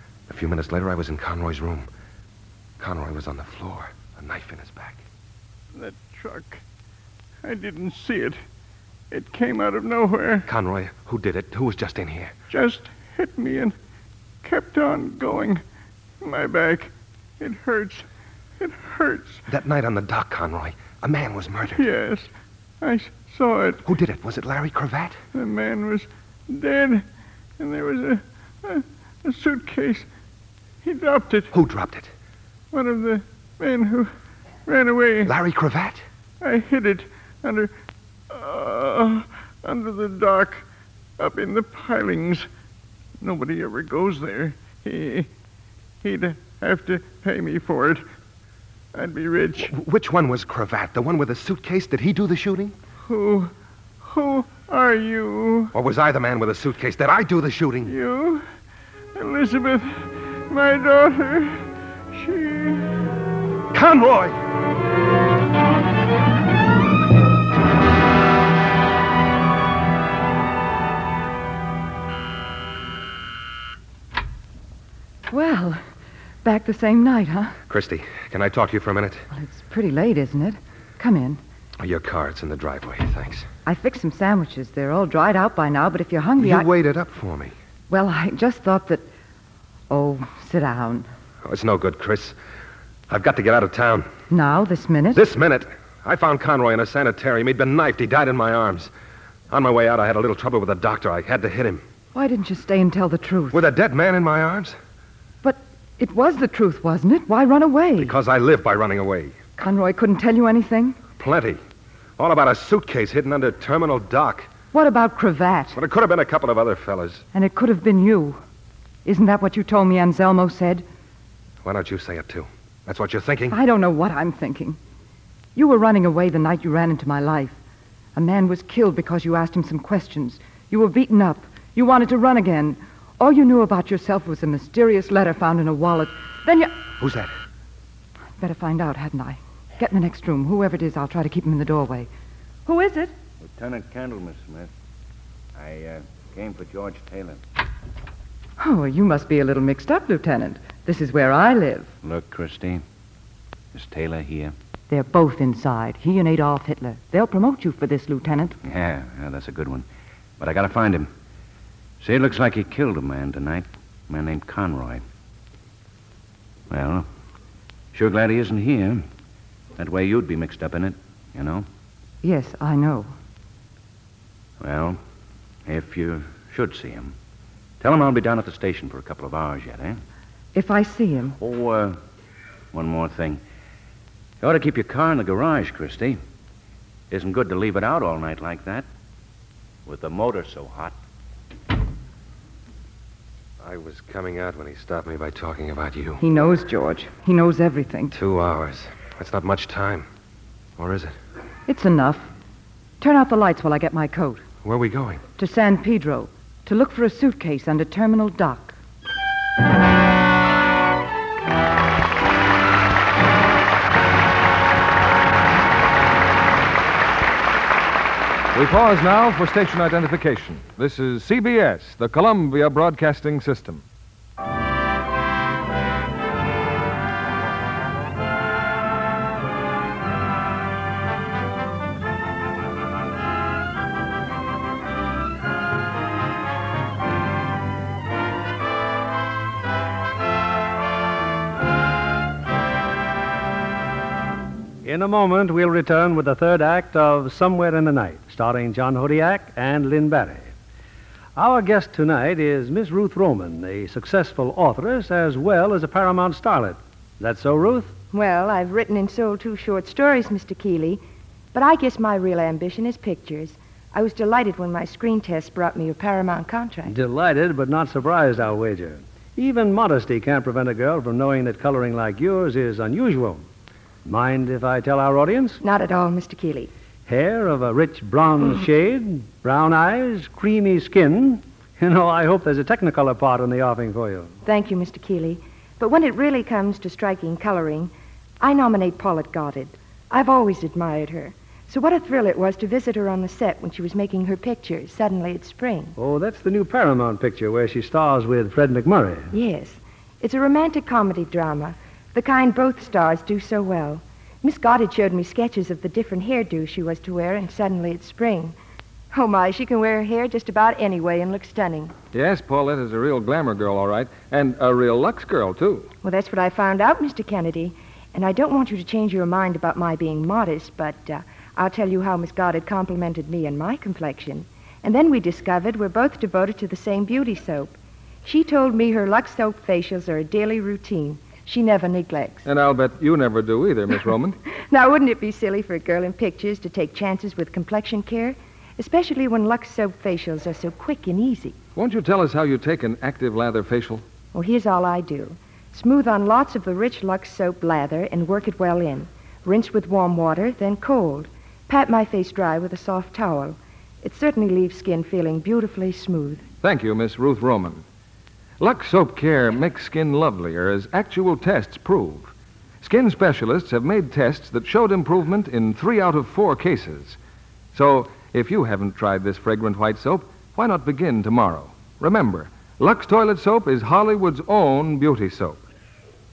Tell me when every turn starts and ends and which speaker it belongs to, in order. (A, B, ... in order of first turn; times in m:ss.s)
0:00.3-0:01.9 A
0:02.8-0:05.0 A
0:05.7-0:06.6 B
0:07.4-0:08.4 B
0:09.1-0:10.5 B
0:10.4-0:12.3 A
0:12.5-0:13.7 B
0:14.4-0:15.6 B
0:16.2-0:18.0 B
0:18.6-0:19.4 B
0:19.5-0:21.8 A
0:21.7-0:22.3 B
0:22.8-0:23.8 B
0:23.8-0:25.2 A
0:25.3-0:27.0 B
0:27.6-0:30.1 B
0:30.8-0:31.5 B
0:31.5-0:32.1 A
0:32.7-0:34.1 B
0:34.7-0:35.3 B
0:35.2-0:36.0 A
0:36.4-0:37.7 B
0:38.3-0:40.6 B
0:41.2-0:42.5 B
0:43.2-0:45.3 B
0:46.0-0:48.0 B
0:48.9-0:49.7 B
0:49.6-0:52.7 A
0:53.0-0:53.5 B
0:54.0-0:55.7 B
0:55.7-0:57.9 A
0:57.8-0:58.4 B
0:59.2-1:02.9 B
1:03.7-1:04.4 A
1:15.3-1:15.8 C
1:16.4-1:17.6 C
1:17.7-1:19.2 A
1:19.3-1:21.4 C
1:21.8-1:23.5 A
1:23.6-1:26.7 C
1:26.4-1:27.5 A
1:27.9-1:29.0 C
1:29.9-1:31.1 C
1:31.4-1:32.4 A
1:33.1-1:34.1 A
1:34.3-1:35.2 C
1:35.1-1:38.9 A
1:39.5-1:41.8 A
1:42.1-1:43.6 C
1:43.5-1:44.8 A
1:45.4-1:48.2 C
1:48.0-1:49.4 A
1:49.6-1:51.0 C
1:51.2-1:51.6 A
1:52.2-1:54.5 A
1:54.7-1:55.8 C
1:55.7-1:57.2 A
1:57.3-1:58.4 C
1:59.0-2:00.8 C
2:01.6-2:03.6 A
2:03.5-2:04.8 C
2:05.5-2:07.6 C
2:08.1-2:16.8 C
2:17.0-2:17.3 A
2:18.4-2:22.1 C
2:22.6-2:23.1 C
2:23.4-2:24.7 D
2:25.6-2:27.4 D
2:28.6-2:31.9 C
2:32.0-2:32.8 D
2:33.7-2:34.5 D
2:34.9-2:38.6 C
2:38.6-2:39.8 D
2:40.4-2:41.1 D
2:42.0-2:45.0 D
2:46.7-2:47.1 D
2:47.9-2:49.0 D
2:49.8-2:51.6 D
2:52.2-2:53.1 C
2:54.6-2:55.0 D
2:55.6-2:57.1 D
2:57.8-3:00.0 D
3:00.5-3:01.4 C
3:01.4-3:02.0 D
3:02.7-3:03.4 D
3:04.4-3:06.2 D
3:07.1-3:08.8 D
3:09.8-3:10.9 D
3:13.6-3:16.2 A
3:16.2-3:18.2 C
3:18.1-3:20.1 A
3:20.8-3:21.2 A
3:21.7-3:22.3 C
3:23.0-3:24.4 C
3:24.6-3:25.2 A
3:25.4-3:28.8 C
3:38.5-3:43.8 E
4:04.8-4:10.5 F
4:11.4-4:17.9 F
4:18.1-4:21.0 G
4:21.5-4:26.9 G
4:26.8-4:33.4 F
4:34.0-4:35.6 F
4:35.6-4:36.7 G
4:37.1-4:44.3 F
4:44.4-4:55.9 G
4:56.0-4:59.3 F
4:59.3-5:08.6 G
5:09.1-5:11.9 G
5:12.1-5:15.9 E
5:16.0-5:32.5 G
5:32.4-5:34.4 E
5:34.7-5:41.6 G
5:41.8-5:44.0 E
5:44.3-5:56.4 G
5:56.6-5:57.8 E
5:58.6-6:07.2 E
6:07.7-6:15.6 E